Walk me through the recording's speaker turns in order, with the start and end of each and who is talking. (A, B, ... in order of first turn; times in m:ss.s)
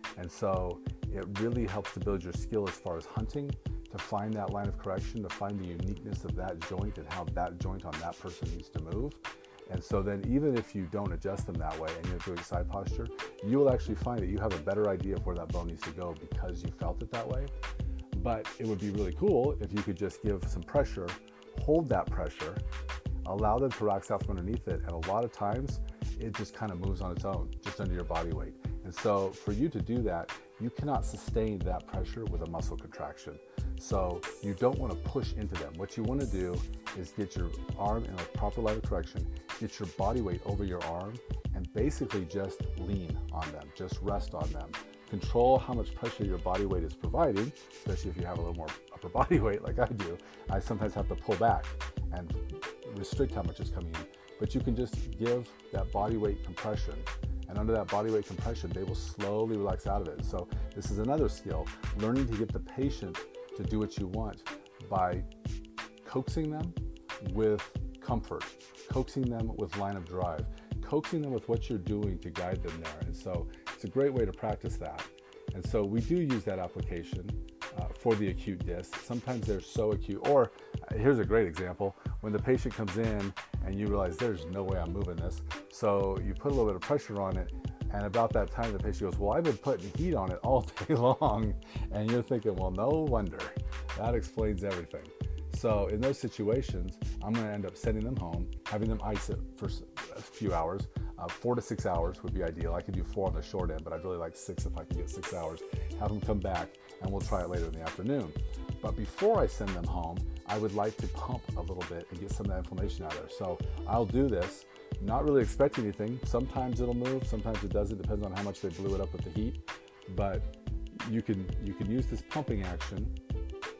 0:00.2-0:17.5 A
0:18.1-0:22.6 A
0:23.2-1:05.3 A
1:06.0-2:03.1 A